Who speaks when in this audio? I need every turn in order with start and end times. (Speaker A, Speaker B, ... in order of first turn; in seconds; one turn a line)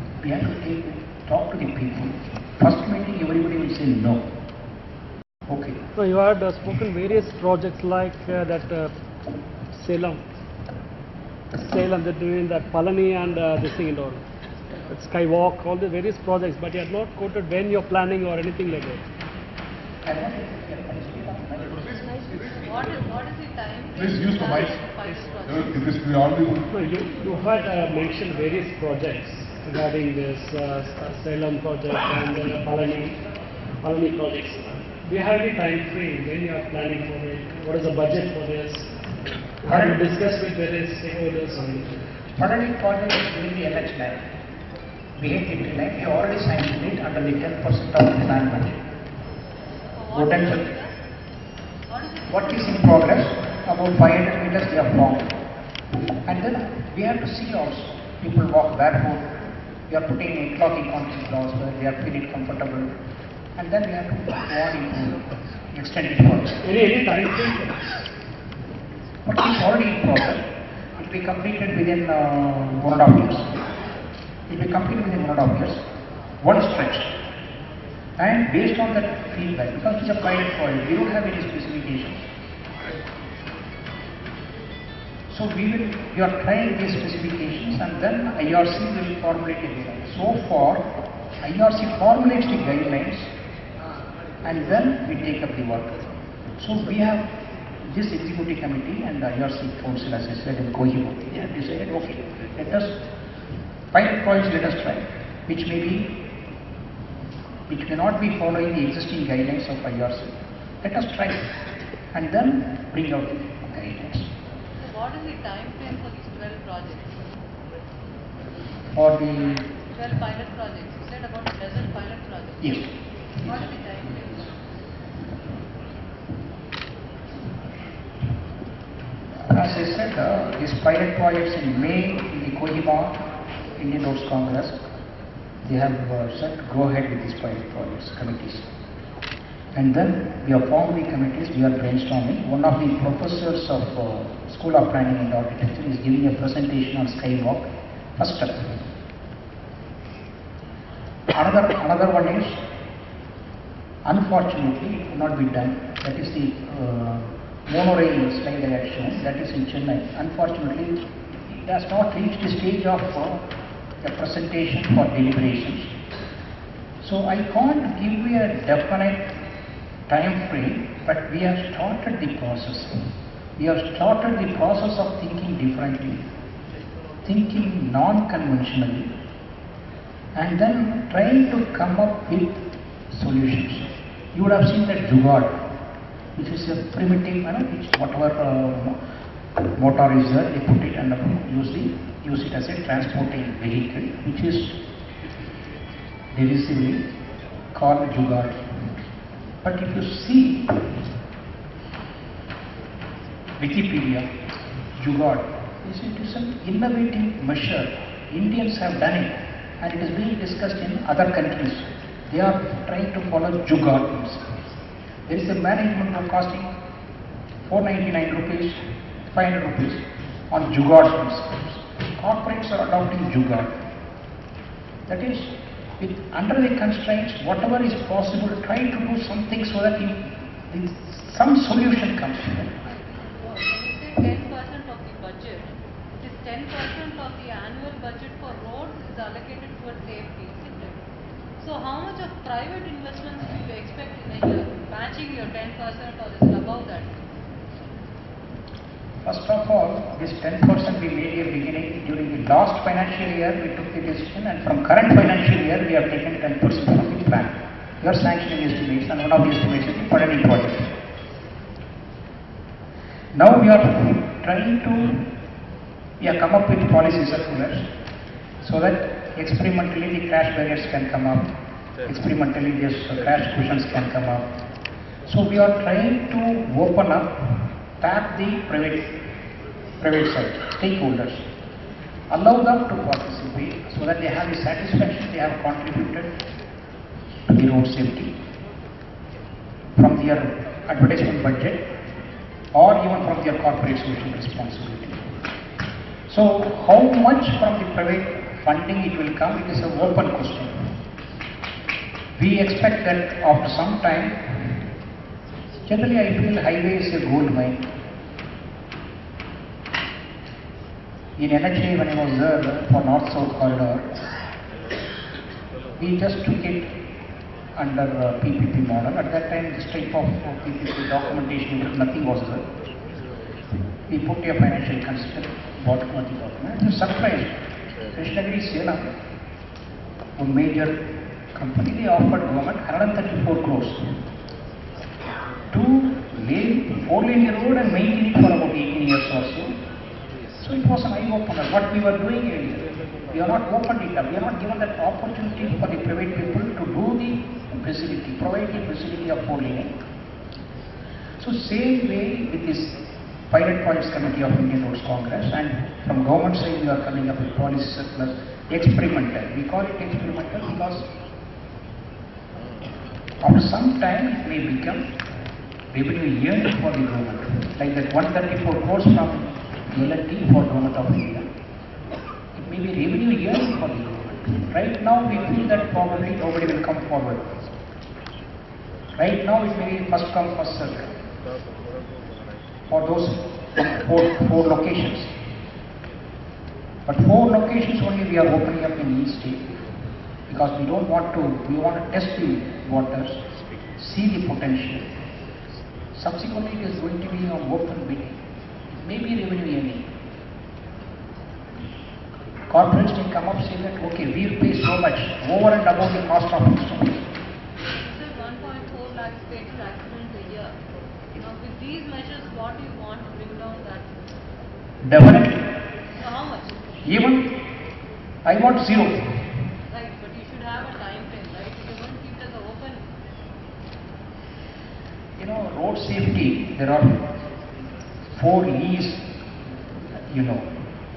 Speaker A: 0.2-4.3
Speaker A: 5.5-5.8
Speaker B: 6.0-8.9
Speaker B: 9.7-10.2
Speaker B: 11.5-14.2
Speaker B: 14.9-19.0
Speaker A: 20.1-22.1
Speaker C: 22.6-25.7
Speaker D: 24.0-24.8
Speaker D: 25.4-26.7
Speaker B: 26.7-33.1
Speaker B: 33.8-38.9
Speaker B: 39.6-42.0
Speaker A: 39.7-40.0
Speaker A: 42.4-44.3
Speaker A: 45.2-48.8
Speaker C: 50.0-50.9
Speaker A: 50.1-50.6
Speaker C: 51.9-52.7
Speaker A: 52.3-55.4
Speaker A: 56.2-59.4
Speaker A: 59.9-62.9
Speaker A: 63.6-66.6
Speaker B: 66.6-67.8
Speaker A: 69.2-73.6
Speaker A: 74.5-75.8
Speaker A: 76.4-77.1
Speaker A: 78.2-82.2
Speaker A: 85.3-90.8
Speaker A: 91.4-93.3
Speaker A: 94.4-96.0
Speaker A: 96.6-97.2
Speaker A: 97.8-103.0
Speaker A: 103.9-106.2
Speaker A: 107.7-111.5
Speaker A: 112.1-114.3
Speaker C: 114.8-117.1
Speaker A: 118.9-119.7
Speaker C: 119.9-122.8
Speaker A: 122.6-122.9
Speaker C: 123.4-124.5
Speaker A: 129.4-133.2
Speaker A: 133.8-134.8
Speaker A: 135.6-138.7
Speaker A: 139.7-148.9
Speaker A: 151.3-152.6
Speaker A: 154.1-163.5
Speaker A: 164.0-165.9
Speaker A: 167.0-169.3
Speaker A: 170.1-173.1
Speaker A: 173.6-176.3
Speaker A: 177.2-179.1
Speaker A: 180.3-185.6
Speaker A: 186.4-189.0
Speaker A: 189.8-194.8
Speaker A: 196.3-197.1
Speaker A: 197.7-198.9
Speaker A: 199.6-201.1
Speaker A: 203.6-204.3
Speaker A: 205.0-214.7
Speaker A: 215.3-216.7
Speaker A: 217.6-223.8
Speaker A: 225.1-232.8
Speaker C: 232.8-241.0
Speaker C: 241.6-247.1
Speaker A: 249.2-260.9
Speaker A: 263.3-265.3
Speaker A: 266.2-267.9
Speaker A: 268.6-271.5
Speaker A: 272.0-274.5
Speaker A: 275.3-279.1
Speaker A: 280.0-281.5
Speaker A: 282.3-286.4
Speaker A: 287.5-288.3
Speaker A: 289.9-291.9
Speaker A: 292.7-295.3
Speaker A: 296.3-301.0
Speaker A: 302.4-304.9
Speaker A: 305.9-307.9
Speaker A: 311.4-314.1
Speaker A: 316.0-316.9
Speaker A: 317.8-322.7
Speaker A: 324.1-327.6
Speaker A: 328.1-329.1
Speaker A: 330.4-331.0
Speaker A: 331.5-334.3
Speaker A: 335.7-339.8
Speaker A: 340.6-349.9
Speaker A: 351.4-353.0
Speaker A: 353.5-361.1
Speaker A: 363.4-365.1
Speaker A: 365.9-371.5
Speaker A: 372.6-377.6
Speaker A: 379.1-381.1
Speaker A: 382.9-385.3
Speaker A: 387.1-389.7
Speaker A: 390.5-393.4
Speaker A: 394.0-395.2
Speaker A: 396.1-398.4
Speaker A: 398.9-400.1
Speaker A: 402.7-407.3
Speaker C: 408.0-410.8
Speaker C: 411.4-414.1
Speaker A: 415.0-415.7
Speaker C: 416.2-416.8
Speaker A: 417.0-417.5
Speaker A: 418.4-419.4
Speaker C: 419.9-423.0
Speaker A: 425.4-427.3
Speaker A: 428.4-429.3
Speaker A: 430.0-430.8